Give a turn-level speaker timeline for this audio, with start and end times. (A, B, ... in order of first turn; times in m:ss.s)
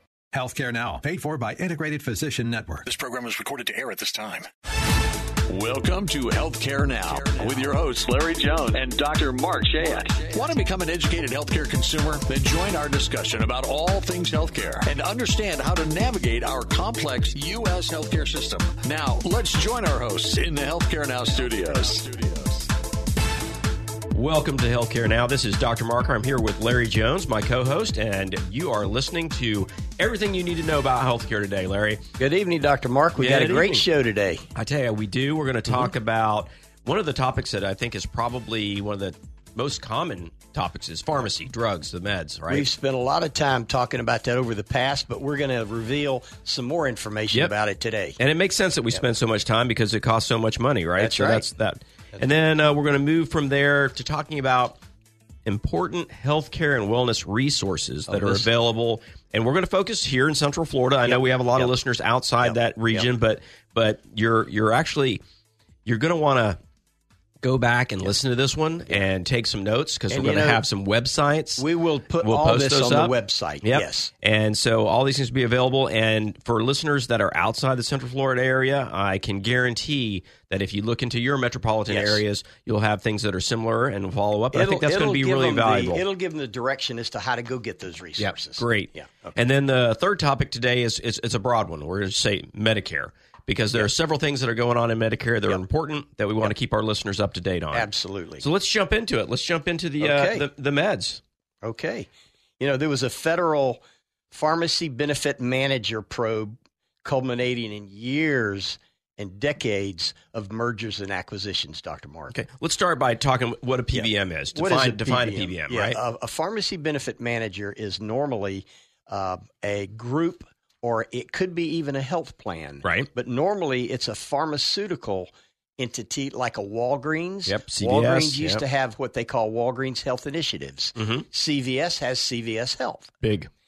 0:00.3-0:02.9 A
0:02.8-0:04.5 B
0:05.5-0:22.7 C
0:07.1-0:07.7 B
0:24.1-0:32.0 D
0:32.2-0:34.4 E
0:33.2-0:33.8 D
0:34.5-0:42.7 D
0:42.5-0:48.2 E
0:48.2-0:54.8 D
0:51.0-0:51.4 E
0:55.4-1:05.2 D
0:58.1-0:58.4 E
1:01.0-1:01.7 E
1:02.4-1:03.1 E
1:05.8-1:06.6 D
1:07.4-1:11.6 D
1:10.1-1:10.6 E
1:11.6-1:14.1 E
1:12.2-1:26.0 D
1:21.9-1:22.2 E
1:24.5-1:29.4 E
1:28.2-1:41.2 D
1:37.7-1:38.4 E
1:40.0-1:40.4 E
1:41.6-1:42.1 E
1:42.6-1:52.3 E
1:52.3-1:56.0 D
1:53.9-2:13.1 E
2:02.8-2:03.1 D
2:07.5-2:08.6 D
2:11.0-2:11.2 D
2:13.2-2:13.5 D